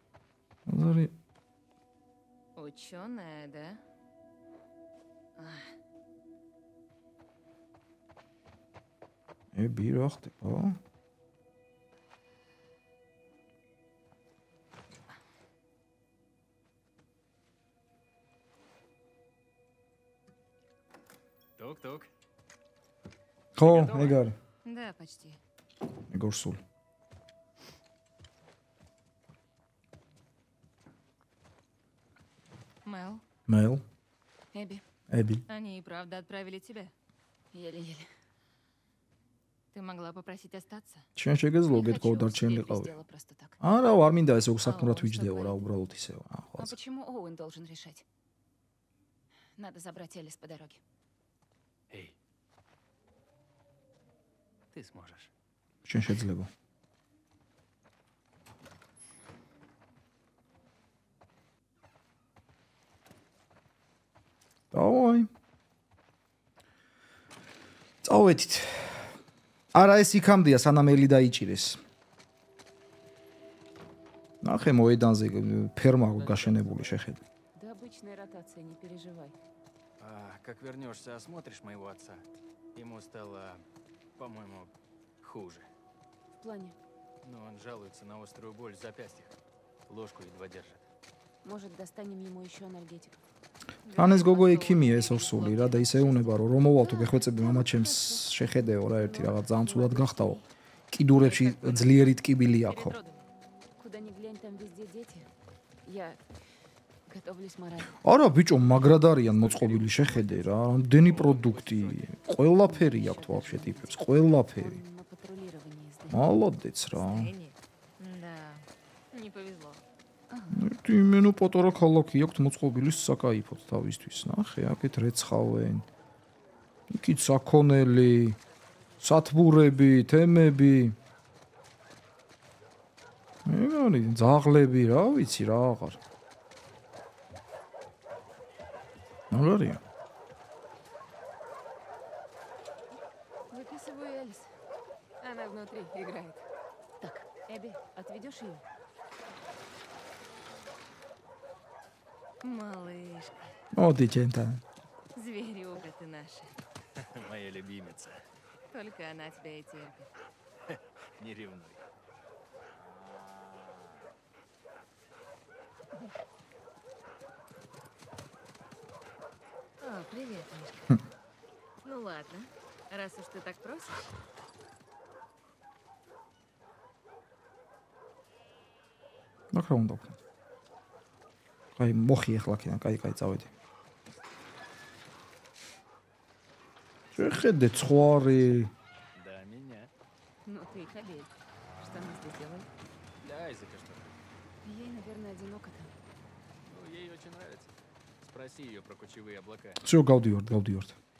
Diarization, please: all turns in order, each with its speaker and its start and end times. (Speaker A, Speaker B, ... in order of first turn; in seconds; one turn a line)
Speaker A: 0.7-1.1
Speaker B: 2.5-3.8
Speaker B: 5.4-5.7
Speaker A: 9.5-10.8
Speaker C: 21.6-22.1
Speaker A: 23.6-24.3
Speaker C: 23.6-24.3
Speaker B: 24.6-25.4
Speaker A: 26.1-26.6
Speaker B: 32.8-33.2
Speaker A: 33.5-33.8
Speaker D: 34.5-34.8
Speaker A: 35.1-35.4
Speaker B: 35.5-36.9
Speaker D: 37.5-38.1
Speaker B: 39.7-41.1
Speaker A: 41.1-42.9
Speaker B: 41.7-42.8
Speaker D: 41.8-43.5
Speaker A: 43.6-46.7
Speaker B: 44.6-45.6
Speaker D: 46.6-48.0
Speaker D: 49.5-50.8
Speaker C: 51.9-52.1
Speaker C: 54.7-55.3
Speaker A: 55.8-56.5
Speaker A: 64.7-65.3
Speaker A: 68.0-69.0
Speaker A: 69.7-71.8
Speaker A: 74.4-77.2
Speaker C: 76.0-77.1
Speaker D: 77.5-79.3
Speaker C: 80.0-85.7
Speaker D: 86.4-86.8
Speaker C: 87.2-89.3
Speaker C: 89.9-90.9
Speaker D: 91.4-93.2
Speaker B: 93.8-96.7
Speaker A: 93.9-103.0
Speaker D: 96.8-100.5
Speaker B: 101.2-103.2
Speaker D: 103.8-105.3
Speaker D: 105.8-106.2
Speaker D: 107.0-108.0
Speaker A: 108.0-114.8
Speaker C: 109.2-112.2
Speaker D: 112.3-116.5
Speaker A: 116.1-117.3
Speaker B: 117.0-119.8
Speaker D: 120.3-120.7
Speaker A: 120.5-125.9
Speaker A: 126.9-128.4
Speaker A: 129.0-130.9
Speaker A: 133.4-136.0
Speaker A: 139.3-139.8
Speaker D: 143.5-144.5
Speaker D: 145.2-146.4
Speaker D: 147.0-148.6
Speaker B: 152.4-153.5
Speaker A: 153.7-154.6
Speaker B: 155.1-156.6
Speaker C: 156.9-158.2
Speaker B: 158.7-160.1
Speaker C: 160.7-161.8
Speaker B: 169.8-170.8
Speaker B: 171.8-174.1
Speaker A: 179.5-180.2
Speaker A: 181.8-183.5
Speaker A: 187.1-188.7
Speaker C: 189.1-189.9
Speaker D: 190.4-192.7
Speaker C: 193.2-194.2
Speaker D: 194.6-195.9
Speaker C: 196.7-199.8
Speaker A: 199.8-200.9